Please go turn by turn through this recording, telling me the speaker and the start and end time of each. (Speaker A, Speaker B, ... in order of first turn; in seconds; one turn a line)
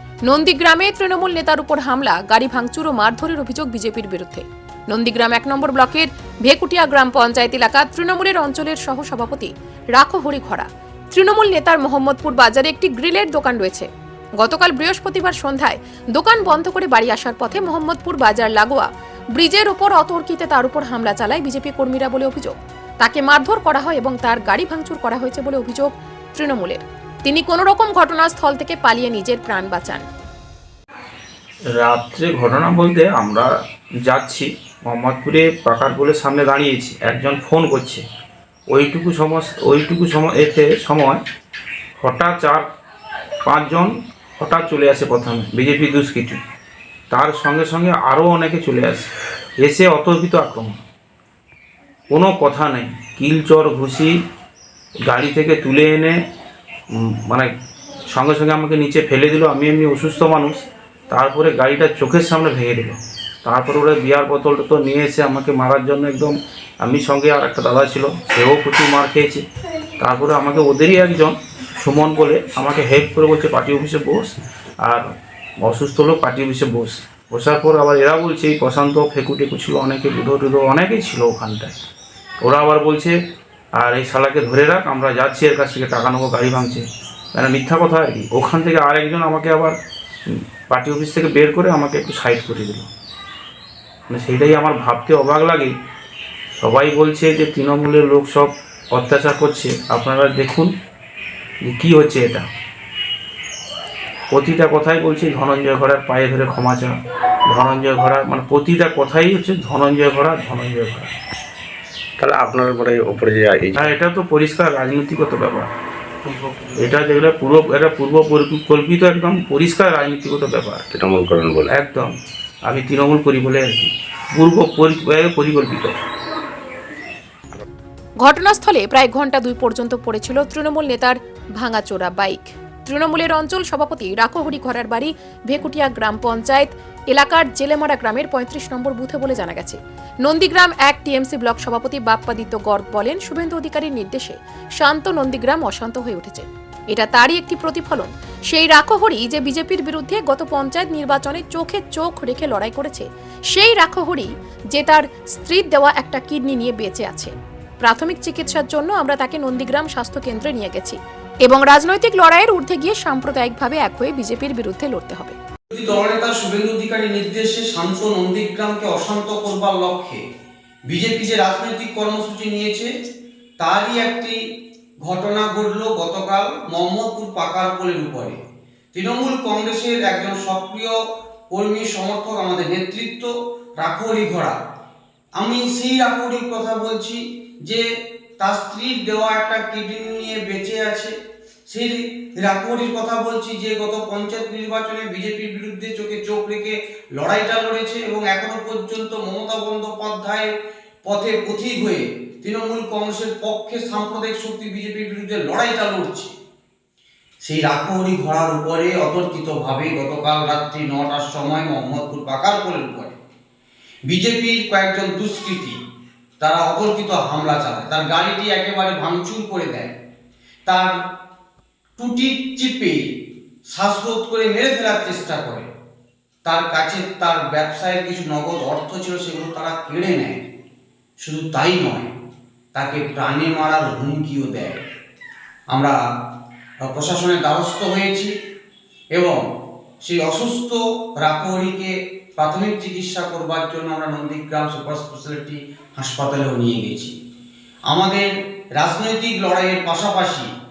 Speaker A: 0.3-30.1
Speaker B: 31.8-33.5
Speaker B: 34.0-38.0
Speaker B: 38.7-41.2
Speaker B: 42.0-42.7
Speaker B: 43.4-46.4
Speaker B: 47.1-49.1
Speaker B: 49.6-50.8
Speaker B: 52.1-54.2
Speaker B: 55.1-56.2
Speaker B: 56.9-57.5
Speaker B: 58.1-69.5
Speaker B: 70.0-75.1
Speaker B: 75.6-81.7
Speaker B: 82.4-83.2
Speaker B: 83.7-92.9
Speaker B: 94.1-95.8
Speaker B: 96.6-100.7
Speaker B: 101.6-102.5
Speaker B: 104.3-111.1
Speaker C: 112.2-114.0
Speaker B: 113.7-115.7
Speaker C: 116.2-116.8
Speaker B: 116.8-120.8
Speaker C: 120.9-121.7
Speaker B: 121.7-126.0
Speaker A: 128.2-165.4
Speaker D: 165.7-170.2
Speaker D: 170.9-172.9
Speaker D: 173.6-174.3
Speaker D: 175.0-178.4
Speaker D: 178.9-180.9
Speaker D: 181.5-184.6
Speaker D: 185.4-187.8
Speaker D: 188.4-191.1
Speaker D: 191.7-200.5
Speaker D: 201.0-206.3
Speaker D: 207.4-213.2
Speaker D: 214.1-215.8
Speaker D: 216.4-219.9
Speaker D: 220.7-220.9
Speaker D: 222.0-223.0
Speaker D: 223.7-225.7
Speaker D: 226.4-230.4
Speaker D: 231.2-232.1
Speaker D: 232.7-234.8
Speaker D: 235.7-236.0
Speaker D: 236.8-238.3
Speaker D: 239.1-239.4
Speaker D: 240.0-247.1
Speaker D: 247.9-250.5